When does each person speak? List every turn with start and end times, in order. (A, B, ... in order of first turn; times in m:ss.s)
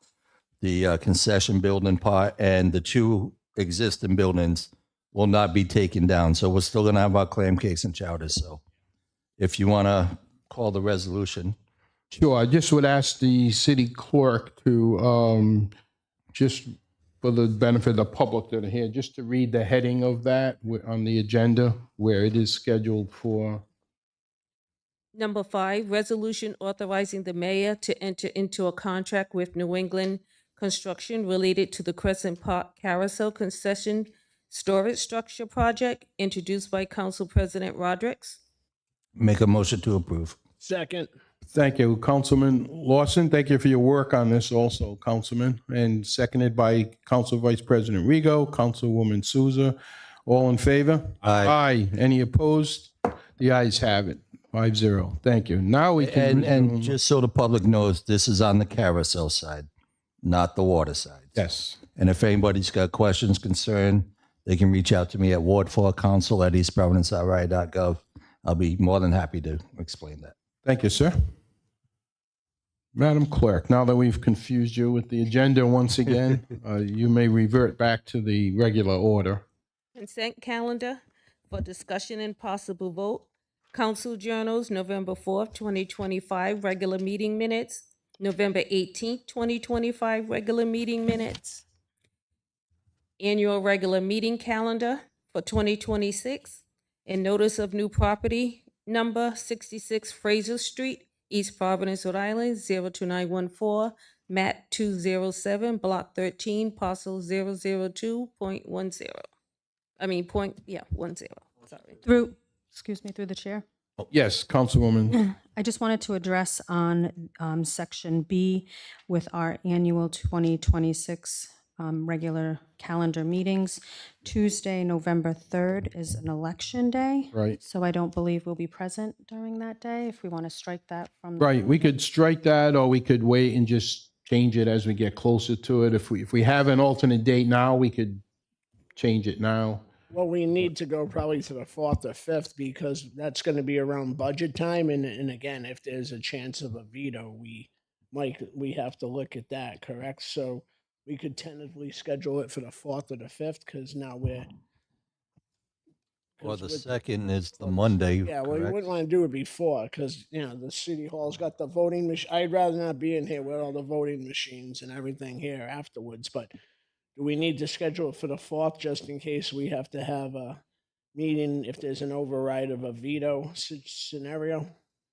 0:00.6-0:08.6 A
0:09.4-0:11.6 A
0:12.1-0:15.7 B
0:16.3-0:23.6 B
0:25.1-0:38.4 C
0:39.2-0:40.4 A
0:40.6-0:41.1 D
0:41.5-0:57.0 B
0:51.2-0:51.5 A
0:56.0-0:59.7 A
1:00.2-1:01.4 A
1:01.3-1:01.8 B
1:01.9-1:10.3 A
1:10.6-1:11.1 B
1:12.9-1:19.4 B
1:19.9-1:31.6 C
1:33.2-1:49.2 C
1:50.0-1:52.0 C
1:52.0-1:53.6 E
1:54.1-1:55.2 B
1:55.1-2:11.7 E
2:11.4-2:18.2 B
2:19.0-2:19.9 B
2:20.1-2:34.5 D
2:36.4-2:36.9 D
2:36.4-2:38.8 A
2:37.6-2:46.5 D
2:47.2-2:50.6 D
2:51.1-2:54.7 D